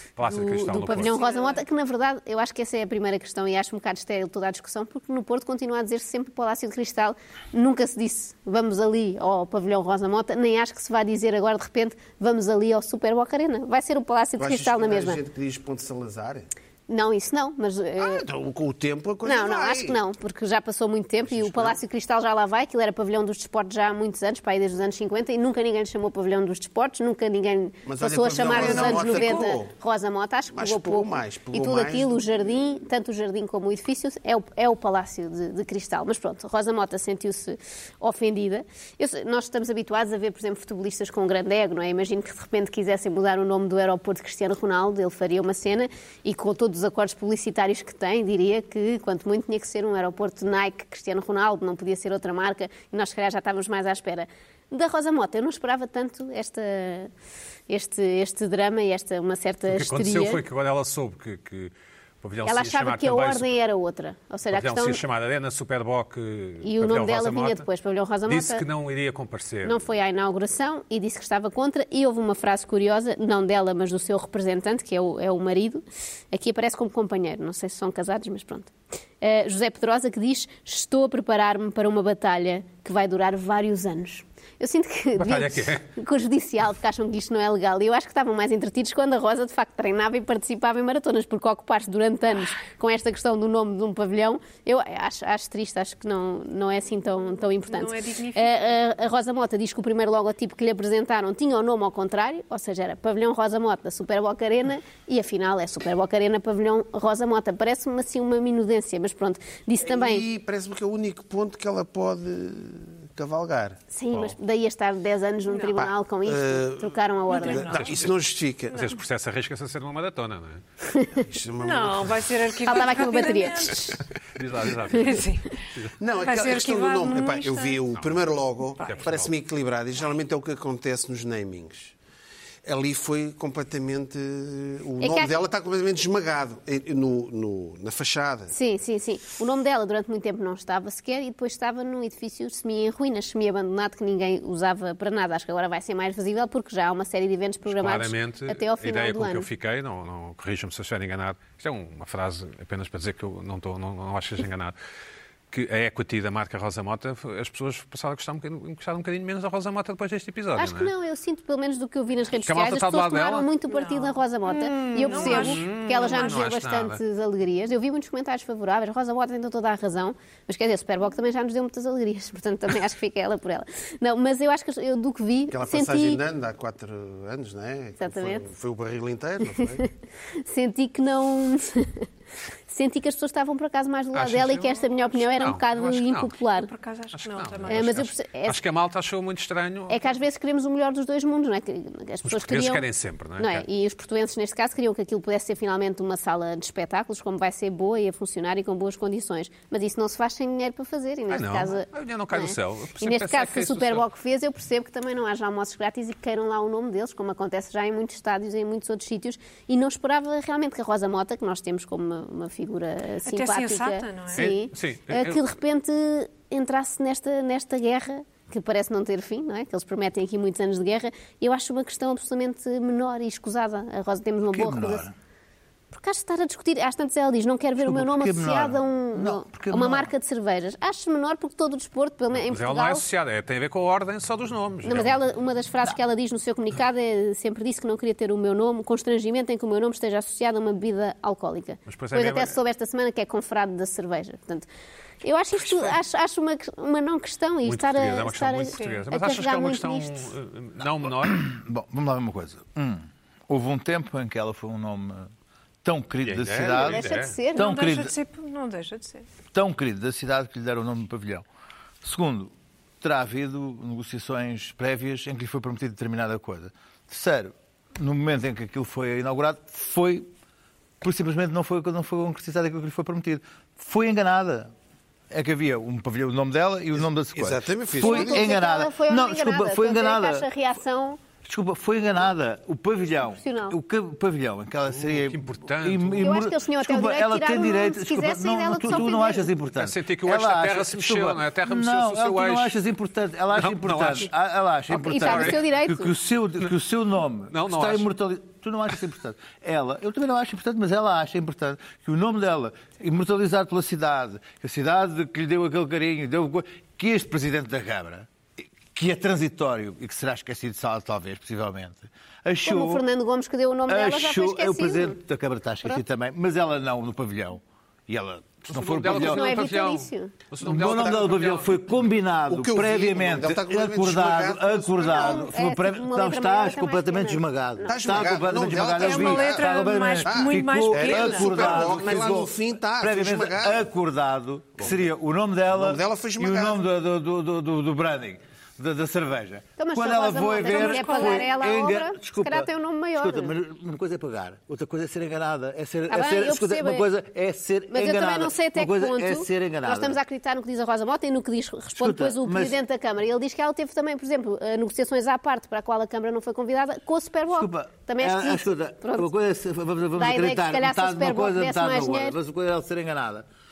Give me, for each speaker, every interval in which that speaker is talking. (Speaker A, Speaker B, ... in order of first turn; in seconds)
Speaker A: 0.1-1.1, 59.7-63.5, 64.5-67.6, 68.3-69.8, 85.2-85.8, 117.7-118.1, 118.7-120.6, 124.3-125.2, 127.9-128.2, 128.8-129.3, 147.7-154.7, 155.5-160.9, 162.4-163.5, 164.6-167.0, 184.1-186.3, 187.1-190.0, 192.2-193.7, 201.3-204.1, 214.3-215.4, 232.3-235.2, 241.9-242.6, 245.7-245.9, 247.6-251.4, 256.2-257.4, 284.9-286.3, 289.7-292.7, 293.5-294.3, 295.2-295.6, 297.5-298.1, 318.7-321.7
Speaker B: 0.2-15.2, 16.9-18.2, 19.2-57.1, 57.7-60.4, 62.4-65.0, 66.6-68.6, 69.6-110.2, 113.9-117.8, 120.9-121.2, 122.6-124.0, 135.0-135.3, 138.5-149.5, 160.5-176.2, 178.0-178.4, 180.4-182.1, 182.7-186.7, 187.7-188.6, 189.9-192.8, 193.4-225.1, 225.9-233.1, 234.8-244.7, 245.2-250.3, 256.7-257.8, 278.0-281.2, 283.3-283.8, 286.2-289.5, 294.9-296.1, 312.6-315.2, 319.1-320.3, 325.0-328.4, 339.8-343.6, 346.1-347.1, 347.9-359.3, 360.1-362.4
Speaker C: 1.1-1.6, 28.5-29.4, 97.7-98.8, 115.5-115.8, 117.3-118.0, 118.7-119.0, 121.6-123.9, 124.9-125.6, 126.2-127.8, 128.8-129.1, 163.7-166.4, 186.6-187.9, 213.2-214.5, 248.7-249.1, 257.6-259.2, 328.9-332.4, 340.7-341.5
Speaker D: 14.4-16.5, 18.0-20.0, 21.2-21.8, 27.9-29.7, 30.5-32.2, 109.8-113.8, 115.8-118.9, 121.2-122.5, 126.0-131.9, 132.6-138.5, 175.5-179.8, 277.0-278.5, 322.5-325.4, 327.9-333.8, 335.7-336.8
Speaker E: 224.5-225.1, 227.8-230.1, 251.2-255.3, 255.8-258.1, 259.5-261.4, 262.0-270.3, 271.0-274.7, 275.3-280.5, 281.4-313.0, 313.9-319.5, 320.6-350.2, 351.9-352.8, 357.5-363.5